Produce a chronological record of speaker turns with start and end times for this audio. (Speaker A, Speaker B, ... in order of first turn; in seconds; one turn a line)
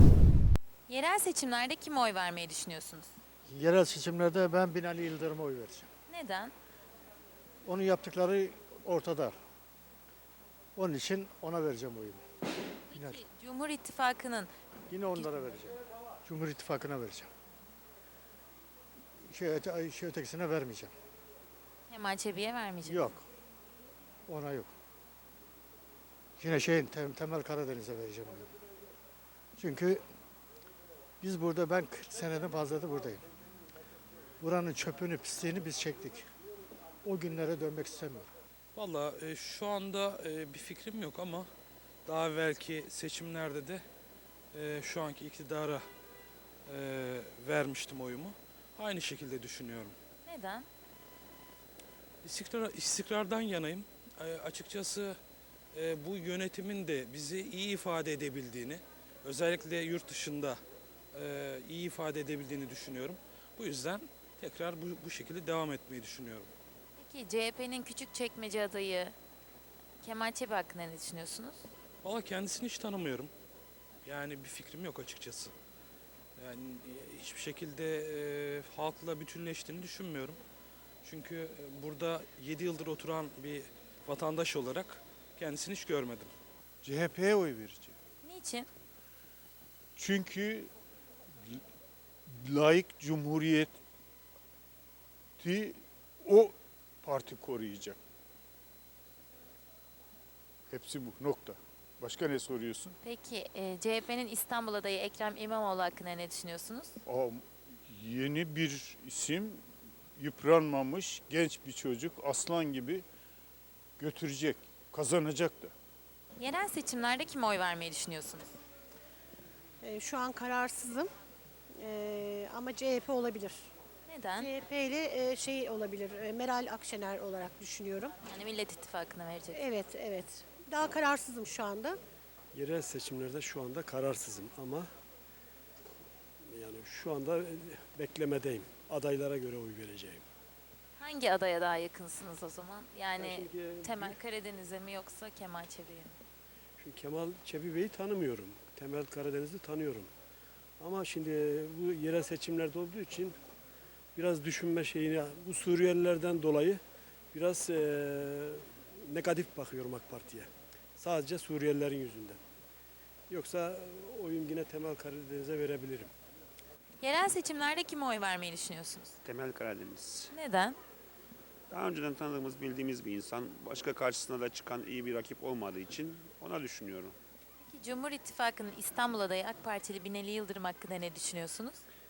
Speaker A: 0.9-3.1
Speaker B: 3.5-5.9
Speaker A: 6.1-6.5
Speaker B: 7.7-9.3
Speaker B: 10.8-12.2
Speaker A: 12.9-14.5
Speaker B: 12.9-13.2
Speaker B: 14.9-15.7
Speaker A: 15.1-15.7
Speaker B: 16.2-17.3
Speaker B: 19.3-20.9
Speaker A: 21.9-23.1
Speaker B: 22.8-23.2
Speaker B: 24.3-24.7
Speaker B: 26.4-28.5
Speaker B: 29.6-30.0
Speaker B: 31.2-33.2
Speaker B: 34.4-36.2
Speaker B: 37.0-38.3
Speaker C: 38.7-41.5
Speaker C: 42.1-43.8
Speaker C: 44.5-45.8
Speaker C: 46.7-50.0
Speaker A: 50.2-50.7
Speaker C: 52.2-55.1
Speaker C: 55.8-60.5
Speaker C: 61.1-66.5
Speaker A: 67.0-69.1
Speaker A: 70.0-71.7
Speaker C: 72.0-73.3
Speaker C: 74.0-75.5
Speaker C: 76.4-80.4
Speaker C: 81.0-86.3
Speaker A: 88.2-88.7
Speaker D: 90.0-90.7
Speaker D: 92.3-93.7
Speaker D: 95.4-98.0
Speaker D: 100.7-102.9
Speaker A: 103.0-107.0
Speaker D: 107.0-109.6
Speaker D: 110.2-113.0
Speaker D: 114.0-115.7
Speaker A: 116.4-118.5
Speaker E: 119.8-121.1
Speaker E: 121.8-123.7
Speaker A: 124.1-124.5
Speaker E: 124.4-128.1
Speaker A: 128.3-129.6
Speaker E: 129.5-132.0
Speaker F: 132.5-134.9
Speaker F: 136.5-140.2
Speaker A: 141.0-146.2
Speaker F: 143.2-144.1
Speaker F: 146.8-150.1
Speaker F: 150.8-153.3
Speaker F: 154.2-156.8
Speaker F: 157.3-162.4
Speaker F: 163.3-166.1
Speaker A: 167.0-169.1
Speaker G: 169.2-170.3
Speaker A: 170.3-170.8
Speaker G: 171.7-177.2
Speaker A: 177.6-181.8